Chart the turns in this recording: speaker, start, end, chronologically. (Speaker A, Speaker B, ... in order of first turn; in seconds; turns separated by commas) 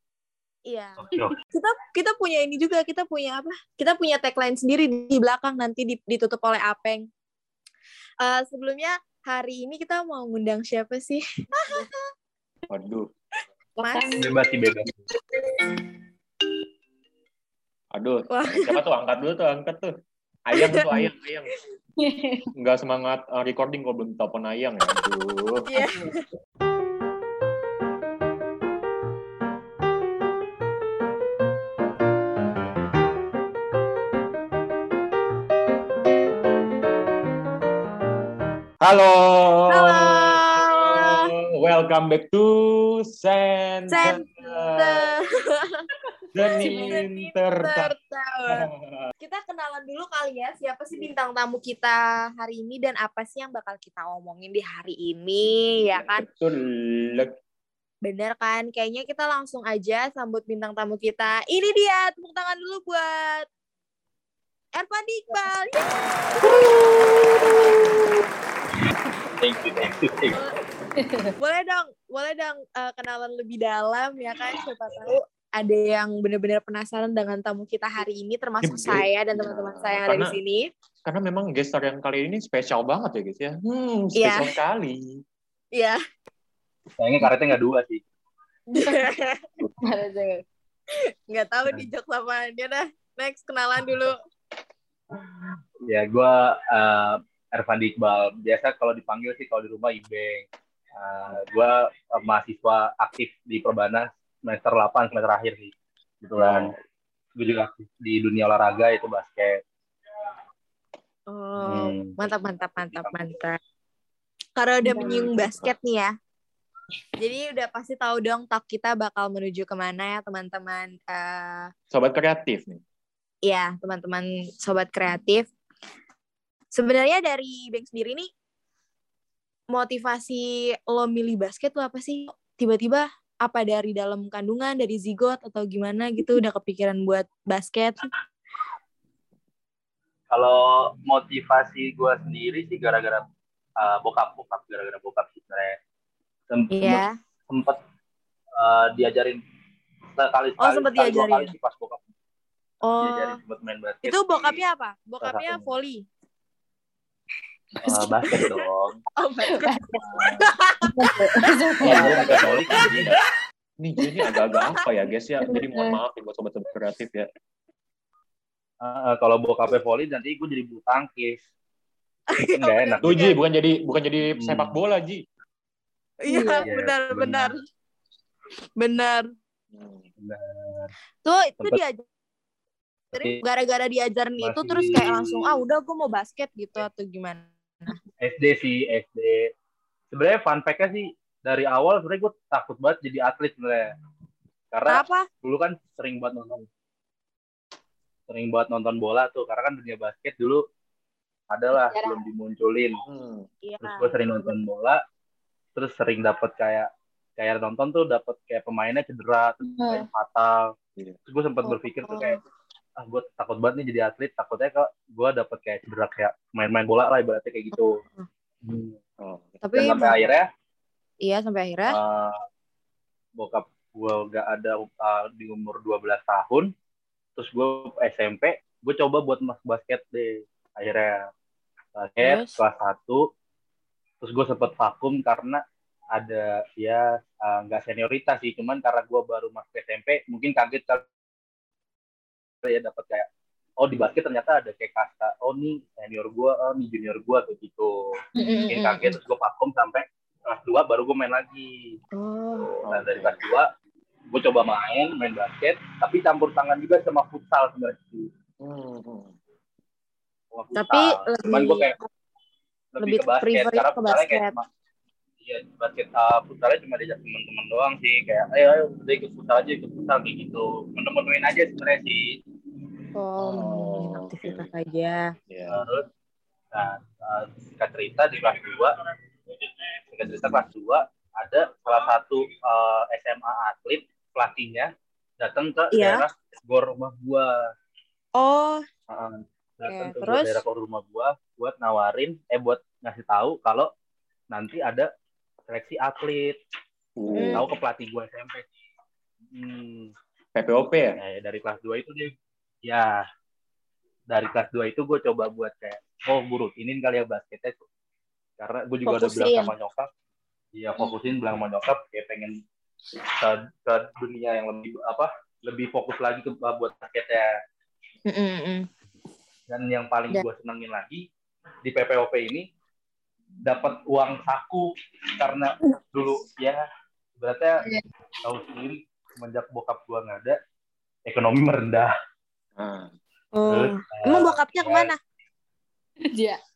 Speaker A: 0.7-7.0, Speaker B: 1.0-1.4, Speaker A: 8.2-11.9, Speaker C: 12.7-13.1, Speaker A: 13.8-14.3, Speaker D: 13.9-14.3, Speaker B: 14.2-15.0, Speaker C: 17.9-19.9, Speaker A: 18.3-18.8, Speaker C: 20.5-21.5, Speaker A: 20.6-21.1, Speaker D: 22.0-22.5, Speaker C: 22.6-25.7, Speaker A: 25.7-26.2, Speaker D: 25.8-26.2, Speaker C: 38.8-45.1, Speaker A: 39.7-41.3, Speaker A: 43.9-45.9, Speaker C: 46.3-47.9, Speaker D: 46.6-47.0, Speaker A: 46.8-48.7, Speaker C: 48.5-49.1, Speaker A: 49.2-56.3, Speaker C: 55.5-57.3, Speaker A: 58.0-63.5, Speaker A: 64.8-66.7, Speaker B: 69.4-70.4, Speaker D: 71.0-71.3, Speaker A: 71.4-80.7, Speaker C: 78.6-80.4, Speaker C: 81.1-85.2, Speaker A: 84.2-84.5, Speaker B: 87.0-88.0, Speaker A: 88.7-89.5, Speaker D: 89.6-90.4, Speaker A: 91.1-94.2, Speaker B: 95.1-106.7, Speaker C: 106.4-106.8, Speaker B: 107.4-109.6, Speaker A: 111.3-113.6, Speaker B: 111.6-112.2, Speaker B: 112.8-113.4, Speaker A: 114.6-116.1, Speaker D: 114.8-115.3, Speaker C: 115.0-115.7, Speaker A: 117.2-121.7, Speaker C: 121.9-122.8, Speaker A: 123.5-125.5, Speaker A: 126.7-128.3, Speaker A: 129.7-138.1, Speaker B: 140.3-143.2, Speaker B: 143.8-145.8, Speaker B: 146.5-147.8, Speaker A: 146.7-147.1, Speaker B: 148.6-149.4, Speaker B: 150.1-152.0, Speaker A: 150.6-151.5, Speaker A: 152.8-153.4, Speaker B: 152.9-154.6, Speaker A: 154.1-156.1, Speaker B: 155.2-155.7, Speaker B: 157.8-159.0, Speaker A: 157.9-158.6, Speaker A: 159.2-162.9, Speaker D: 159.5-160.3, Speaker B: 160.0-160.4, Speaker D: 160.9-162.4, Speaker B: 161.8-163.1, Speaker C: 161.8-163.2, Speaker C: 163.8-167.3, Speaker A: 164.3-164.8, Speaker D: 165.4-166.0, Speaker B: 168.8-171.4, Speaker A: 172.3-173.4, Speaker B: 172.6-173.2, Speaker C: 173.0-175.2, Speaker B: 174.2-174.8, Speaker A: 176.2-177.6, Speaker D: 176.3-176.7, Speaker B: 176.6-177.6, Speaker A: 178.8-179.3, Speaker C: 179.7-180.1, Speaker B: 180.2-180.9, Speaker A: 181.2-182.0, Speaker B: 183.1-183.4, Speaker A: 183.1-188.0, Speaker B: 184.4-185.6, Speaker B: 188.2-189.5, Speaker B: 190.1-193.9, Speaker B: 194.7-196.7, Speaker A: 194.9-195.3, Speaker B: 198.3-200.6, Speaker B: 201.5-203.0, Speaker D: 201.7-202.2, Speaker C: 203.1-203.5, Speaker A: 203.6-204.1, Speaker B: 203.8-205.0, Speaker B: 205.8-210.7, Speaker D: 209.8-210.1, Speaker B: 211.3-212.4, Speaker A: 211.7-212.4, Speaker B: 213.0-218.0, Speaker A: 217.7-218.3, Speaker B: 218.6-219.0, Speaker C: 219.2-219.8, Speaker A: 219.6-220.2, Speaker B: 219.7-220.5, Speaker A: 221.2-222.0, Speaker B: 221.9-222.4, Speaker B: 223.4-226.7, Speaker B: 227.4-231.3, Speaker B: 232.0-233.3, Speaker A: 232.2-232.6, Speaker B: 234.2-235.6, Speaker B: 236.1-241.0, Speaker B: 242.6-243.3, Speaker B: 243.8-248.0, Speaker A: 248.4-249.2, Speaker B: 248.7-252.0, Speaker A: 252.1-252.7, Speaker B: 252.5-253.7, Speaker C: 252.8-253.5, Speaker B: 254.3-258.3, Speaker C: 258.6-259.4, Speaker B: 260.5-261.9, Speaker A: 260.8-262.0, Speaker B: 262.9-264.7, Speaker A: 263.0-264.5, Speaker B: 265.4-272.3, Speaker A: 273.2-275.3, Speaker C: 273.4-274.7, Speaker C: 275.5-275.8, Speaker B: 275.7-276.0, Speaker B: 276.7-278.9, Speaker B: 280.1-287.5, Speaker A: 285.9-286.2, Speaker A: 288.4-288.8, Speaker B: 289.1-293.9, Speaker A: 289.9-290.6, Speaker B: 294.5-295.1, Speaker B: 295.7-296.6, Speaker C: 297.2-297.7, Speaker A: 297.3-297.6, Speaker B: 297.6-298.7, Speaker B: 299.5-300.1, Speaker C: 300.6-301.2, Speaker B: 301.2-302.3, Speaker B: 302.8-303.2, Speaker B: 304.3-307.8, Speaker B: 308.6-310.1, Speaker A: 309.1-309.7, Speaker B: 310.7-312.6, Speaker B: 313.3-317.5, Speaker A: 318.3-318.9, Speaker B: 319.7-321.3, Speaker B: 321.8-322.7, Speaker B: 323.6-326.9, Speaker B: 327.4-327.8, Speaker B: 328.4-330.6, Speaker B: 331.3-332.1, Speaker C: 332.8-333.1, Speaker A: 333.6-335.2, Speaker B: 333.7-335.1, Speaker D: 336.3-336.6